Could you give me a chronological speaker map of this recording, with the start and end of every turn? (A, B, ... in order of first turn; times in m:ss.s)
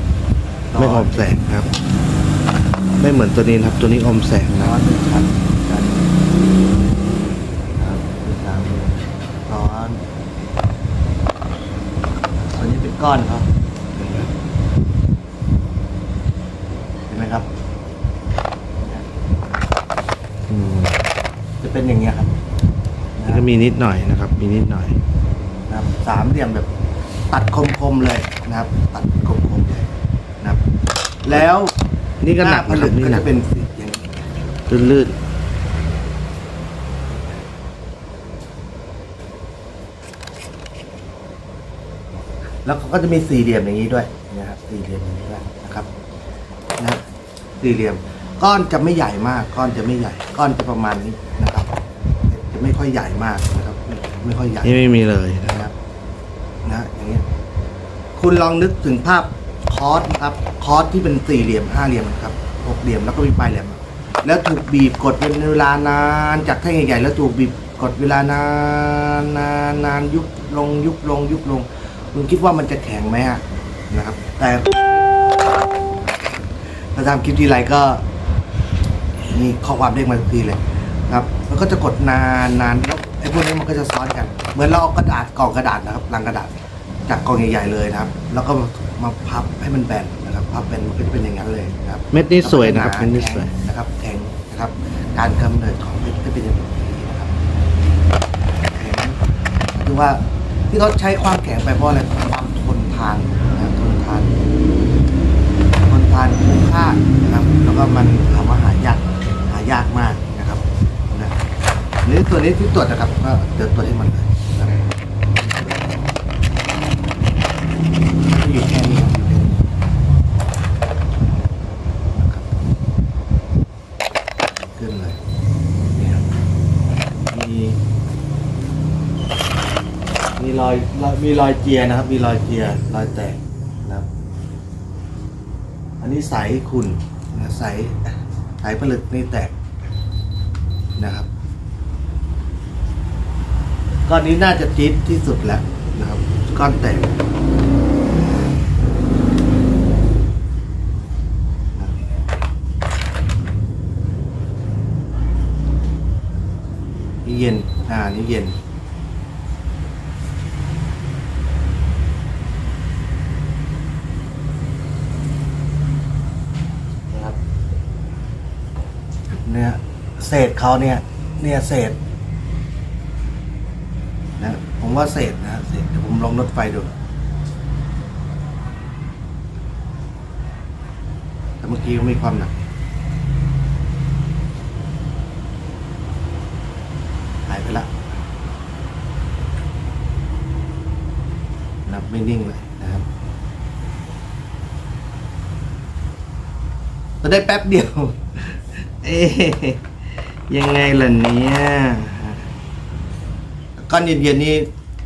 0:00.7-0:01.5 A
0:00.8-0:01.7 B
0:03.0-0:04.7 B
0:04.5-0:06.1 A
0:07.8-0:10.0 A
0:12.4-0:13.5 A
0:14.0-0:14.3 A
0:17.1-0:17.5 A
0:20.5-0:20.9 A
0:21.6-0:22.3 A
0:23.2-0:23.5 A
0:23.3-0:25.0 B
0:25.7-0:26.7 A
0:27.3-0:29.9 A
0:31.2-0:31.7 A
0:32.2-0:33.3 B
0:32.4-0:34.0 A
0:34.7-0:35.2 B
0:42.6-0:45.9 A
0:47.6-0:51.7 A
0:52.3-0:54.8 A
0:54.6-0:55.7 B
0:55.5-0:55.7 A
0:56.6-0:57.2 A
0:58.2-1:14.8 A
1:16.9-1:18.0 A
1:19.2-1:37.3 A
1:32.1-1:33.5 B
1:38.7-1:39.2 A
1:39.8-1:44.3 A
1:45.8-1:51.4 A
1:52.0-1:55.9 A
1:58.3-1:59.6 A
2:02.1-2:02.5 A
2:04.7-2:05.2 A
2:06.0-2:06.2 A
2:07.3-2:07.8 A
2:10.4-2:14.1 A
2:16.0-2:19.5 A
2:21.0-2:21.3 A
2:24.1-2:27.1 A
2:37.2-2:38.6 A
2:47.1-2:47.4 A
2:49.5-2:52.0 A
2:54.4-2:57.0 A
3:01.6-3:02.7 A
3:07.5-3:07.9 A
3:11.9-3:13.0 A
3:17.2-3:19.8 A
3:20.5-3:22.4 A
3:23.8-3:24.7 A